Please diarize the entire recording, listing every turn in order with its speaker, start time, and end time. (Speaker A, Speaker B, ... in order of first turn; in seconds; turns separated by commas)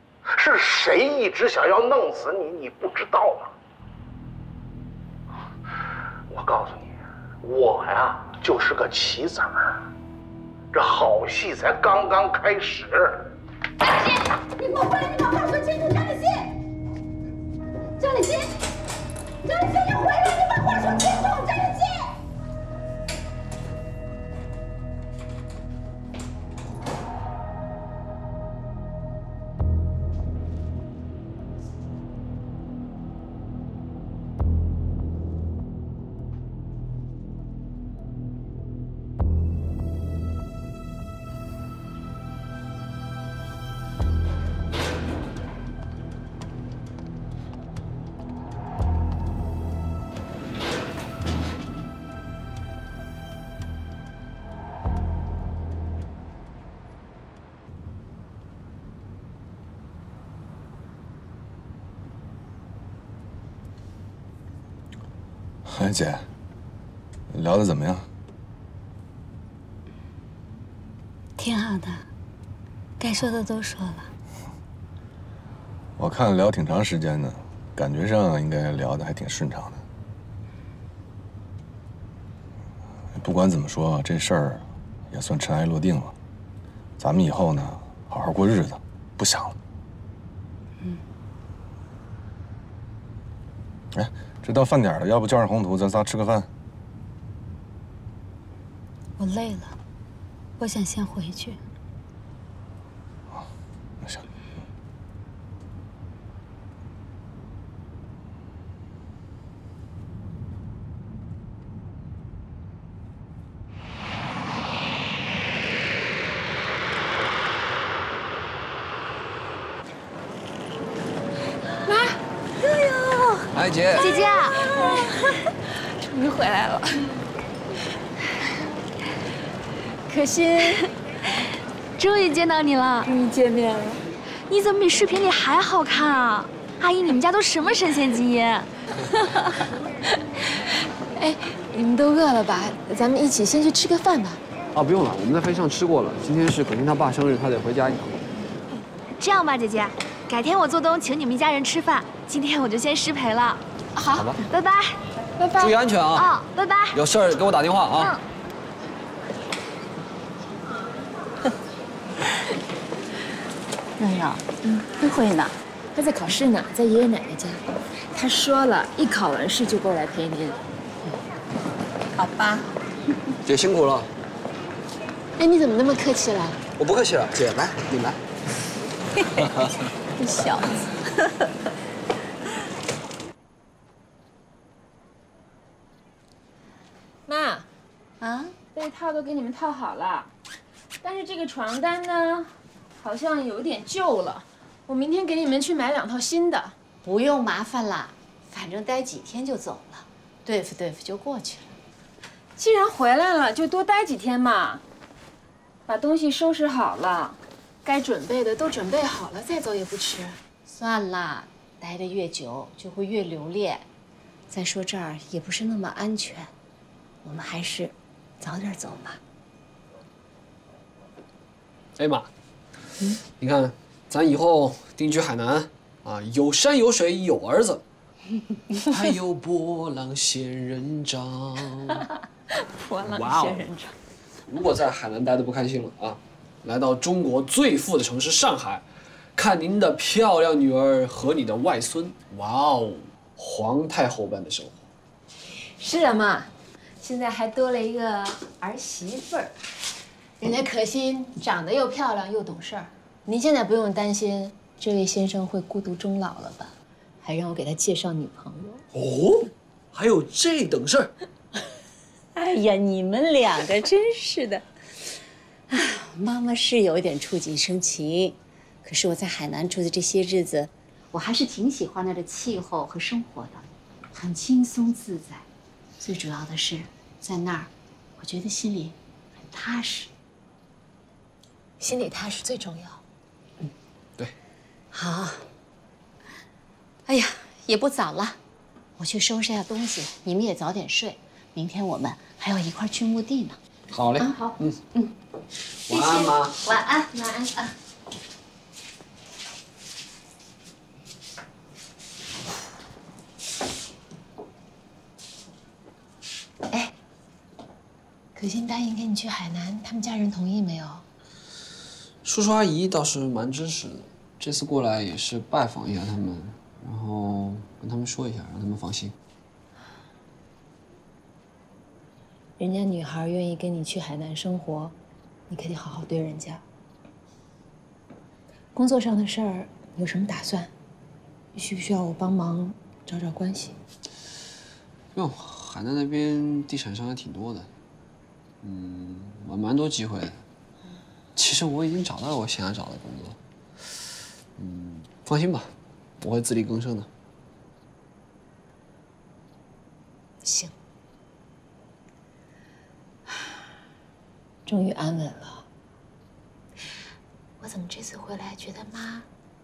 Speaker A: 0.3-3.5, Speaker A: 6.3-9.8, Speaker A: 10.7-13.3, Speaker B: 13.8-16.5, Speaker B: 18.0-18.5, Speaker B: 19.4-22.1, Speaker C: 65.7-66.2, Speaker C: 67.3-68.1, Speaker D: 71.4-72.1, Speaker D: 73.0-74.1, Speaker C: 76.0-79.8, Speaker C: 83.1-86.1, Speaker C: 87.0-89.5, Speaker C: 93.9-96.5, Speaker D: 99.2-99.7, Speaker D: 100.6-101.6, Speaker E: 121.8-122.2, Speaker F: 122.6-123.4, Speaker G: 123.5-124.1, Speaker F: 124.0-124.8, Speaker E: 124.0-125.1, Speaker E: 126.0-126.9, Speaker E: 130.1-130.8, Speaker F: 132.0-133.1, Speaker E: 133.0-134.0, Speaker F: 134.5-138.7, Speaker E: 141.2-144.4, Speaker G: 144.7-148.2, Speaker F: 149.2-153.6, Speaker E: 153.9-154.3, Speaker G: 154.1-154.4, Speaker F: 154.5-155.0, Speaker E: 155.4-155.8, Speaker G: 155.6-156.3, Speaker F: 156.1-157.0, Speaker G: 156.9-158.1, Speaker D: 164.0-165.5, Speaker E: 165.9-167.6, Speaker E: 168.1-170.6, Speaker D: 172.2-172.6, Speaker G: 173.4-174.1, Speaker E: 175.4-176.6, Speaker G: 176.8-178.2, Speaker G: 179.4-179.7, Speaker D: 180.2-180.8, Speaker E: 187.3-187.7, Speaker D: 188.2-188.5, Speaker E: 188.7-190.3, Speaker E: 191.0-196.7, Speaker D: 197.0-201.8, Speaker E: 202.6-204.8, Speaker E: 205.9-210.4, Speaker D: 210.7-213.8, Speaker D: 214.5-216.5, Speaker D: 217.2-219.2, Speaker G: 222.0-222.3, Speaker G: 223.4-227.8, Speaker G: 228.9-232.1, Speaker G: 233.0-233.7, Speaker G: 234.5-244.8, Speaker E: 245.8-249.5, Speaker E: 250.4-258.8, Speaker H: 258.9-261.1, Speaker D: 262.3-264.6, Speaker D: 265.7-275.4, Speaker D: 276.0-278.9, Speaker D: 279.5-280.1, Speaker E: 281.8-283.0, Speaker D: 284.9-285.4, Speaker D: 287.1-288.3, Speaker D: 289.0-293.6, Speaker G: 293.9-294.8, Speaker E: 294.2-294.6, Speaker G: 295.9-296.6, Speaker D: 296.6-297.1, Speaker E: 297.1-297.6, Speaker E: 308.3-311.0, Speaker G: 312.2-319.1, Speaker E: 322.6-324.9, Speaker E: 325.5-326.6, Speaker E: 328.7-330.7, Speaker E: 331.5-333.8, Speaker G: 335.1-337.7, Speaker G: 338.6-340.4, Speaker G: 341.4-343.4, Speaker G: 344.6-347.1, Speaker E: 350.4-350.7, Speaker E: 354.6-355.6, Speaker E: 357.6-359.2